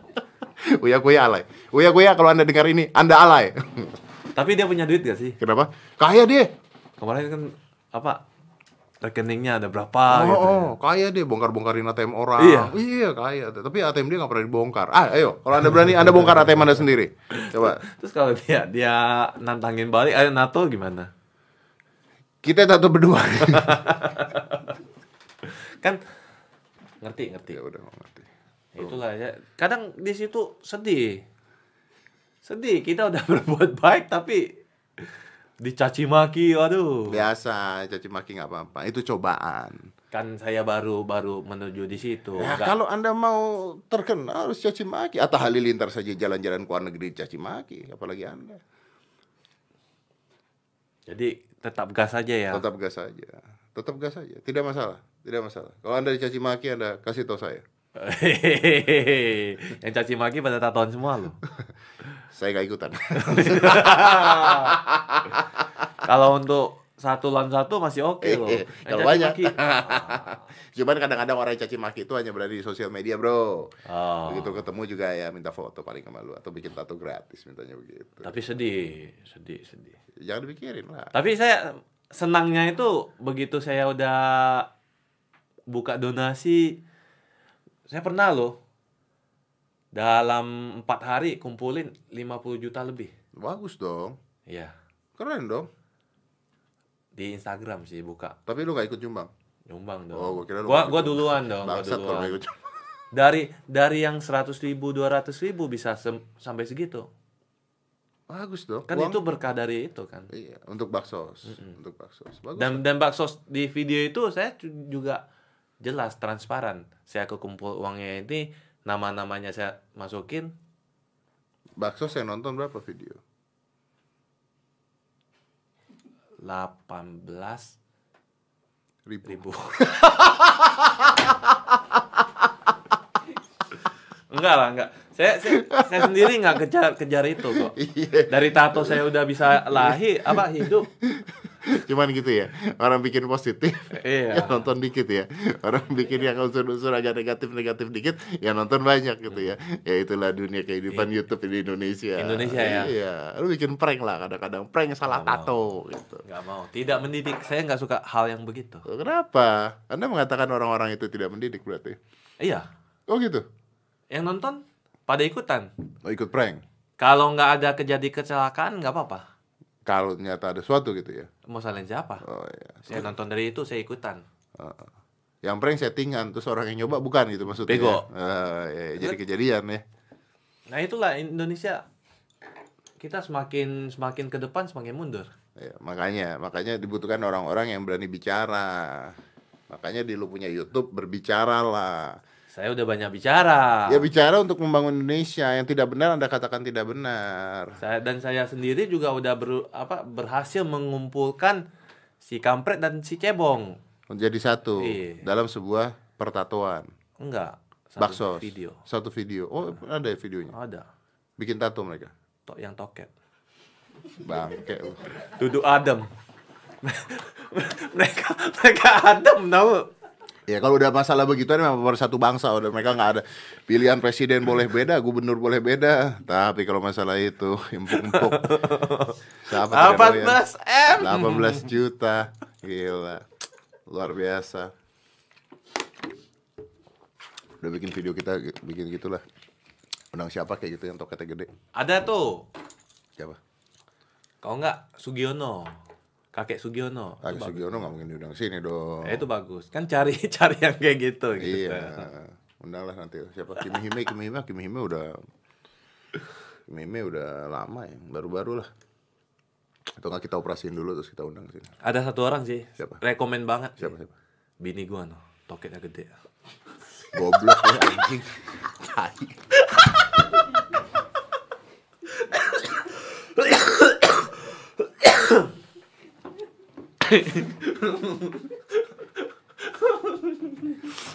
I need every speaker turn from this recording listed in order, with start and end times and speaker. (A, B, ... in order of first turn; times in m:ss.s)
0:00.6-0:04.0 A
0:04.3-0:05.4 B
0:05.4-0:06.5 A
0:07.0-0:08.2 B
0:09.0-0:10.7 B
0:10.1-0:17.8 A
0:12.4-0:12.8 B
0:15.8-0:16.7 B
0:17.3-0:21.1 B
0:22.4-0:24.0 A
0:23.4-0:24.7 B
0:25.4-0:26.0 B
0:27.0-0:27.6 B
0:27.5-0:29.0 A
0:28.7-0:31.2 B
0:32.4-0:34.6 B
0:35.6-0:37.2 B
0:37.1-0:39.8 A
0:40.1-0:42.7 B
0:42.4-0:48.6 A
0:51.1-0:52.6 B
0:52.5-0:57.6 A
0:58.0-1:01.4 B
1:02.3-1:05.9 A
1:03.2-1:04.8 B
1:06.0-1:10.4 B
1:08.2-1:13.7 A
1:13.8-1:14.6 B
1:14.3-1:18.3 A
1:18.2-1:20.0 B
1:20.2-1:21.1 A
1:21.1-1:24.7 B
1:25.7-1:26.8 B
1:27.9-1:28.6 B
1:29.9-1:33.1 B
1:33.4-1:34.2 A
1:34.5-1:34.7 B
1:35.2-1:35.7 A
1:37.2-1:38.4 B
1:38.5-1:39.3 A
1:39.7-1:42.4 B
1:40.1-1:42.6 A
1:43.1-1:47.1 B
1:48.3-1:49.2 A
1:48.9-1:50.3 B
1:50.3-1:52.8 A
1:51.5-1:51.7 B
1:52.6-1:55.2 B
1:55.8-2:00.5 B
2:01.8-2:03.2 A
2:06.4-2:07.8 B
2:09.0-2:09.5 A
2:09.3-2:10.5 B
2:10.0-2:12.5 A
2:14.3-2:17.7 B
2:15.5-2:16.3 A
2:17.5-2:36.2 A
2:18.3-2:20.9 B
2:23.9-2:24.6 B
2:32.2-2:32.9 B
2:35.1-2:35.5 B
2:36.2-2:38.8 B
2:38.8-2:42.0 A
2:42.4-2:42.7 B
2:43.1-2:43.4 A
2:44.1-2:45.7 B
2:46.0-2:46.6 A
2:47.0-2:49.2 B
2:49.8-2:51.3 A
2:51.5-2:52.2 B
2:52.2-2:53.1 A
2:52.8-2:54.2 B
2:54.6-2:54.9 A
2:55.4-2:59.8 A
2:57.7-2:58.0 B
3:00.7-3:01.8 B
3:03.0-3:05.3 B
3:05.6-3:09.2 A
3:09.7-3:12.2 A
3:12.5-3:14.1 B
3:13.9-3:17.8 A
3:17.8-3:21.6 B
3:22.2-3:23.8 B
3:24.1-3:26.9 A
3:24.8-3:25.3 B
3:27.2-3:28.8 B
3:28.0-3:30.5 A
3:30.5-3:30.8 B
3:31.4-3:32.1 A
3:32.5-3:33.1 B
3:34.2-3:35.0 A
3:35.2-3:36.1 B
3:36.8-3:39.9 B
3:40.5-3:48.6 A
3:47.9-3:51.7 B
3:49.4-3:50.4 A
3:51.0-3:53.2 A
3:53.9-3:54.7 A
3:57.6-3:59.2 A
4:00.1-4:01.5 A
4:01.7-4:02.5 B
4:04.4-4:05.7 B
4:06.3-4:07.9 B
4:07.2-4:09.2 A
4:09.0-4:12.1 B
4:11.4-4:15.2 A
4:16.7-4:18.7 A
4:20.0-4:21.7 A
4:21.8-4:23.9 B
4:23.8-4:24.1 A
4:24.6-4:26.1 B
4:27.1-4:29.3 A
4:32.3-4:32.7 B
4:33.4-4:34.4 B
4:35.0-4:35.5 B
4:37.0-4:38.4 B
4:39.7-4:40.6 B